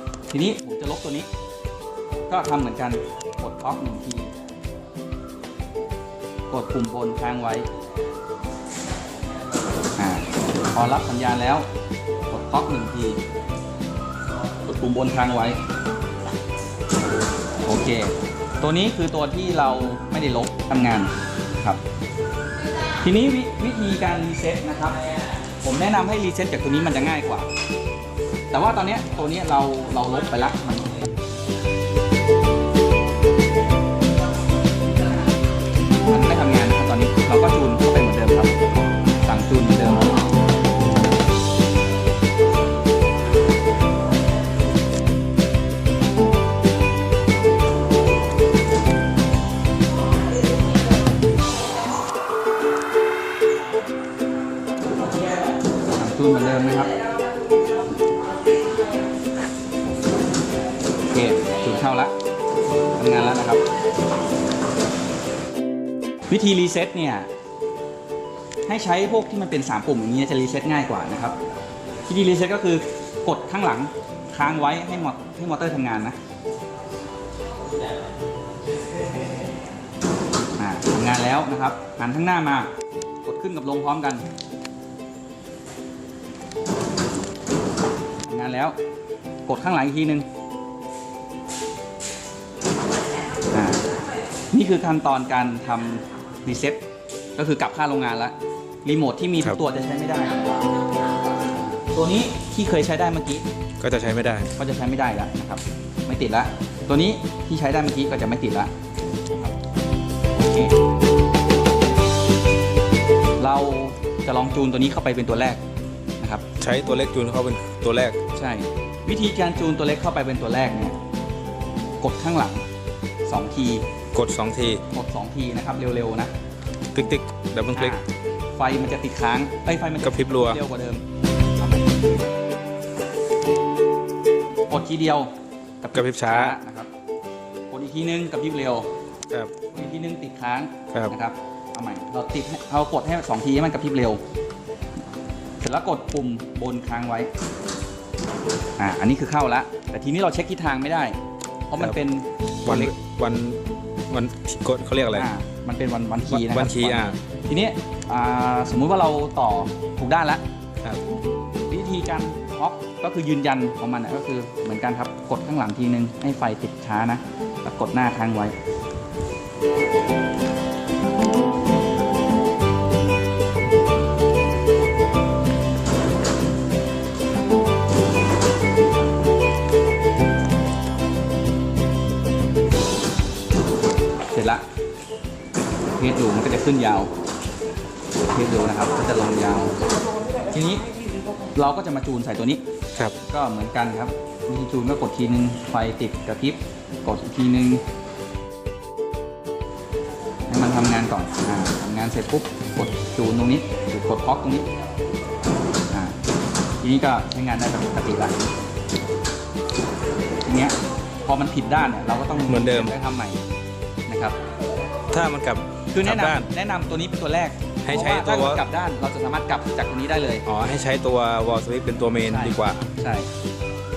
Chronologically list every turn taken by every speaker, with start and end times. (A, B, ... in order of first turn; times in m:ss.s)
0:00.3-0:01.3 A
0:02.3-0:04.3 A
0:06.5-0:07.7 A
0:10.0-0:11.6 A
0:12.3-0:13.2 A
0:14.6-0:15.6 A
0:17.6-0:21.8 A
0:23.0-0:25.0 A
0:25.6-0:27.5 A
0:28.5-0:31.1 A
0:36.1-0:38.6 A
0:39.2-0:40.2 A
0:56.0-0:57.0 A
1:01.1-1:02.1 A
1:03.0-1:03.6 A
1:06.3-1:07.3 A
1:08.7-1:11.4 A
1:12.0-1:16.2 A
1:20.6-1:22.7 A
1:23.2-1:24.2 A
1:28.2-1:28.8 A
1:29.5-1:30.3 A
1:33.5-1:33.8 A
1:34.5-1:36.8 A
1:37.4-1:40.6 A
1:41.5-1:43.4 A
1:43.8-1:44.5 B
1:44.6-1:48.7 A
1:50.3-1:50.7 A
1:53.4-1:55.6 A
1:56.6-1:58.2 B
1:58.3-2:01.0 A
2:02.0-2:02.6 A
2:03.2-2:03.9 A
2:04.1-2:04.8 B
2:04.9-2:06.3 A
2:06.9-2:08.0 B
2:07.7-2:11.0 A
2:10.0-2:10.6 B
2:11.6-2:12.3 A
2:14.7-2:15.3 A
2:15.8-2:16.9 A
2:15.9-2:16.6 B
2:17.7-2:18.9 A
2:19.7-2:24.2 A
2:25.6-2:27.3 A
2:28.8-2:31.2 A
2:31.7-2:32.9 A
2:32.6-2:35.3 B
2:35.1-2:40.4 A
2:36.3-2:37.2 B
2:41.7-2:48.5 A
3:04.3-3:04.6 A
3:05.9-3:07.1 A
3:08.3-3:09.7 A
3:10.5-3:10.9 A
3:11.5-3:12.6 A
3:13.2-3:17.8 A
3:20.5-3:24.7 A
3:26.8-3:28.3 A
3:30.4-3:33.4 A
3:32.5-3:32.9 B
3:34.1-3:34.4 A
3:35.1-3:36.5 B
3:35.9-3:40.4 A
3:37.8-3:38.6 B
3:40.4-3:42.8 B
3:42.2-3:43.3 A